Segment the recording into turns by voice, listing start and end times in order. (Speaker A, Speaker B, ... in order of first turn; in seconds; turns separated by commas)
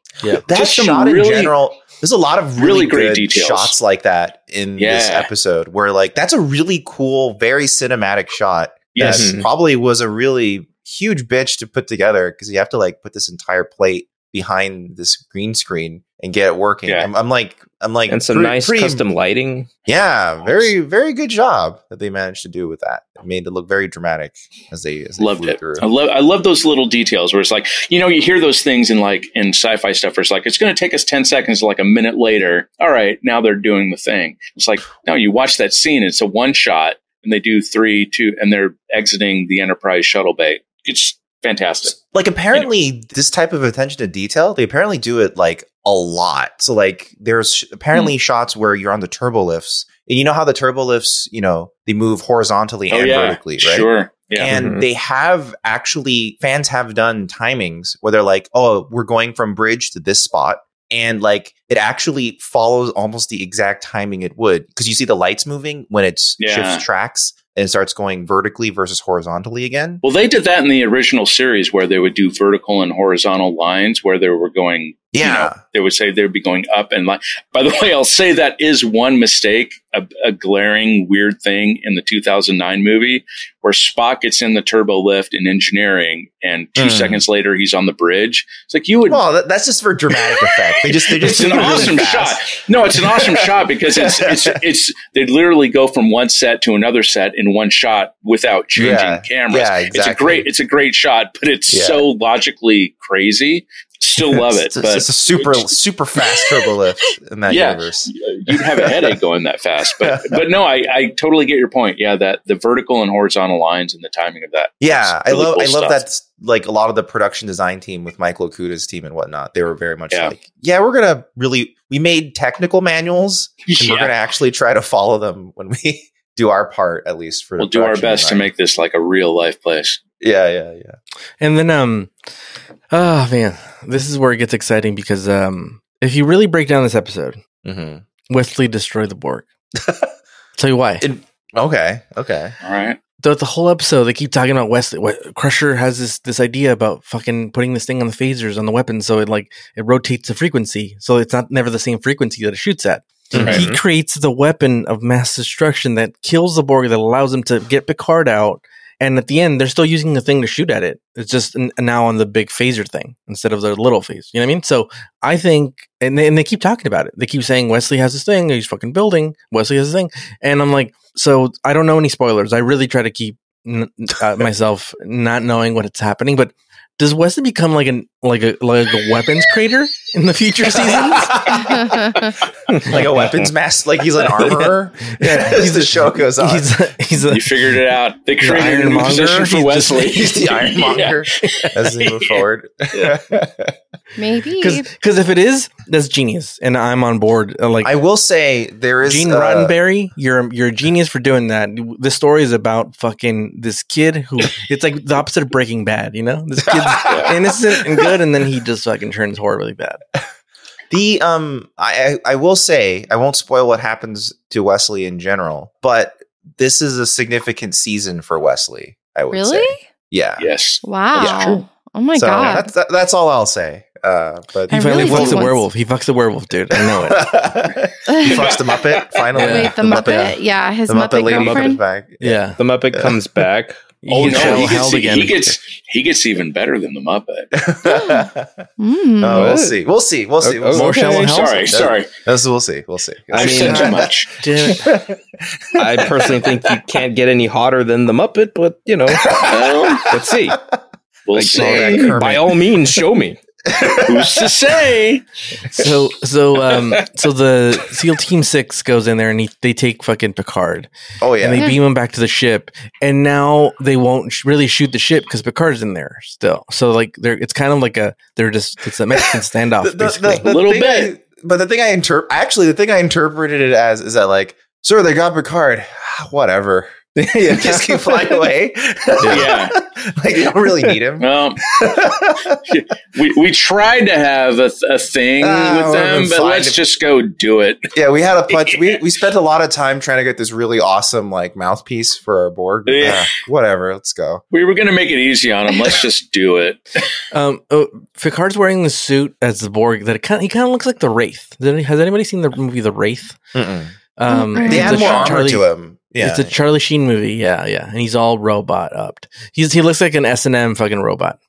Speaker A: 0.4-19.0, Speaker B: 0.5-1.5, Speaker B: 2.6-3.7, Speaker B: 4.8-5.3, Speaker B: 8.9-9.3, Speaker C: 9.0-9.5, Speaker C: 18.1-19.7, Speaker A: 19.9-25.9, Speaker B: 25.2-42.0, Speaker A: 42.1-70.0, Speaker B: 52.9-54.5, Speaker C: 54.4-54.9, Speaker B: 66.4-66.8, Speaker B: 70.0-89.2, Speaker A: 75.1-75.6, Speaker A: 86.8-87.2, Speaker A: 89.0-94.6, Speaker B: 90.3-106.5, Speaker A: 98.7-100.5, Speaker A: 101.7-102.1, Speaker A: 104.2-109.2, Speaker B: 107.5-116.0, Speaker A: 110.0-110.5, Speaker A: 114.8-128.5, Speaker B: 123.7-124.1, Speaker B: 127.6-130.0, Speaker A: 130.2-131.0, Speaker D: 131.4-132.1, Speaker D: 132.9-137.4, Speaker A: 137.6-138.0, Speaker D: 138.3-139.5, Speaker A: 139.8-140.1, Speaker D: 140.6-141.1, Speaker A: 141.0-142.5, Speaker B: 142.6-143.0, Speaker D: 143.2-181.6, Speaker A: 153.3-153.7, Speaker C: 153.3-153.8, Speaker A: 180.9-182.1, Speaker E: 181.7-182.2, Speaker C: 182.7-183.4, Speaker A: 182.8-186.7, Speaker D: 184.4-187.8, Speaker B: 187.2-192.4, Speaker D: 188.4-190.2, Speaker A: 190.1-193.7, Speaker E: 194.2-194.9, Speaker D: 194.6-197.9, Speaker A: 197.8-199.7, Speaker D: 199.0-210.0, Speaker A: 206.7-208.1, Speaker B: 207.0-207.3, Speaker A: 210.9-220.5, Speaker E: 219.3-219.8, Speaker B: 220.4-221.6, Speaker E: 220.8-222.7, Speaker A: 222.1-225.5, Speaker E: 224.7-225.6, Speaker D: 224.7-227.3, Speaker A: 226.7-232.4, Speaker B: 227.7-229.2, Speaker E: 228.1-228.4, Speaker D: 229.3-229.8, Speaker E: 229.3-231.8, Speaker C: 231.3-231.8, Speaker D: 232.2-232.6, Speaker C: 232.6-233.8, Speaker A: 232.9-233.2, Speaker D: 234.0-235.4, Speaker B: 234.1-237.6, Speaker C: 234.3-234.5, Speaker A: 234.3-234.6, Speaker A: 237.5-238.6, Speaker E: 237.8-239.6, Speaker A: 239.2-245.2, Speaker C: 239.3-239.8, Speaker C: 240.4-241.4, Speaker D: 240.7-241.7, Speaker B: 241.2-242.1, Speaker C: 243.3-244.1, Speaker B: 243.3-244.3, Speaker D: 244.4-245.0, Speaker A: 245.7-246.3, Speaker C: 245.7-250.6, Speaker A: 249.1-250.2, Speaker B: 249.2-250.1, Speaker B: 251.3-252.2, Speaker C: 251.3-253.4, Speaker A: 251.5-252.6, Speaker A: 253.7-254.5, Speaker B: 254.0-255.2, Speaker D: 255.7-270.4, Speaker A: 261.2-261.7, Speaker A: 269.8-282.6, Speaker B: 270.4-271.1, Speaker C: 277.2-278.3, Speaker C: 279.2-279.5, Speaker B: 279.3-279.7, Speaker B: 281.2-281.6, Speaker B: 282.7-287.9, Speaker A: 285.4-286.8, Speaker A: 287.9-294.4, Speaker B: 292.9-293.4, Speaker B: 294.5-297.1, Speaker D: 297.3-303.4, Speaker A: 303.5-303.9, Speaker D: 304.1-305.6, Speaker E: 304.3-305.2, Speaker A: 304.6-306.5, Speaker B: 304.8-305.3, Speaker D: 306.2-311.4